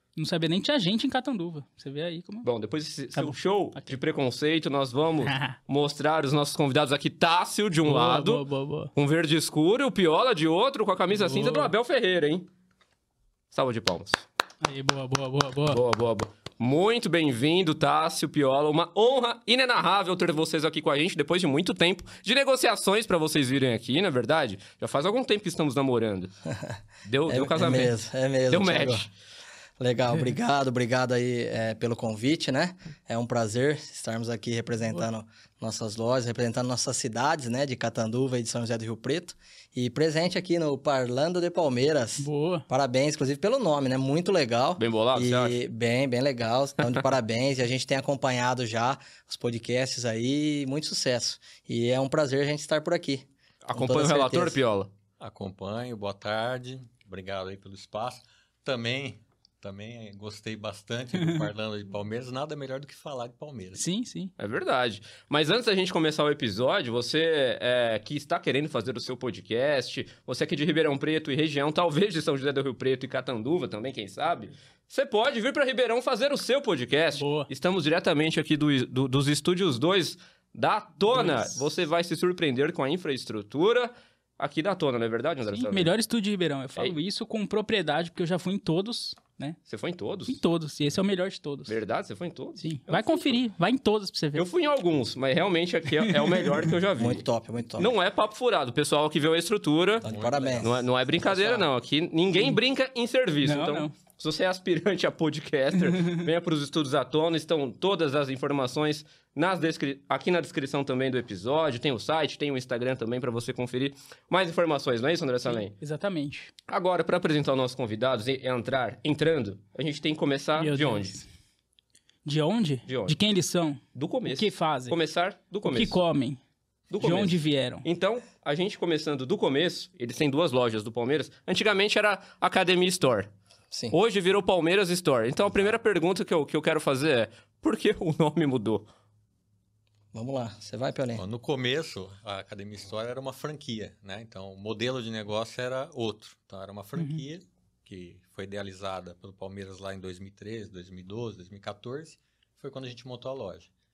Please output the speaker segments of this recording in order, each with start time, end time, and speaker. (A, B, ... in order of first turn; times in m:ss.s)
0:00.2-0:02.4 A
0:02.4-0:12.5 B
0:03.1-0:03.9 A
0:05.2-0:05.6 A
0:07.9-0:08.9 A
0:11.1-0:11.7 A
0:13.5-0:14.2 B
0:14.6-0:15.8 A
0:15.7-0:26.3 B
0:26.5-0:26.8 C
0:27.0-0:27.9 B
0:27.3-0:29.1 C
0:28.5-0:29.1 B
0:29.8-0:54.6 C
0:42.2-0:42.6 A
0:44.8-0:45.6 B
0:53.6-0:54.9 B
0:55.2-1:03.8 D
1:03.8-1:04.3 A
1:04.4-1:25.9 B
1:17.2-1:17.5 A
1:21.1-1:21.6 A
1:25.5-1:29.6 A
1:29.7-1:30.4 B
1:30.3-1:31.8 A
1:31.7-1:33.4 B
1:32.6-1:34.5 A
1:34.3-1:37.2 B
1:36.1-1:36.7 A
1:37.0-1:37.9 C
1:37.8-1:40.0 B
1:40.0-1:41.7 C
1:40.0-1:40.8 D
1:40.6-1:55.7 B
1:43.4-1:43.9 A
1:55.5-1:56.5 A
1:56.7-2:01.1 B
2:00.6-2:01.2 A
2:02.2-2:05.0 A
2:02.9-2:03.2 B
2:03.9-2:06.0 B
2:05.6-2:06.4 A
2:06.9-2:13.3 B
2:07.0-2:07.8 A
2:13.9-2:18.9 B
2:20.1-2:21.2 C
2:21.2-2:33.7 D
2:27.0-2:27.2 A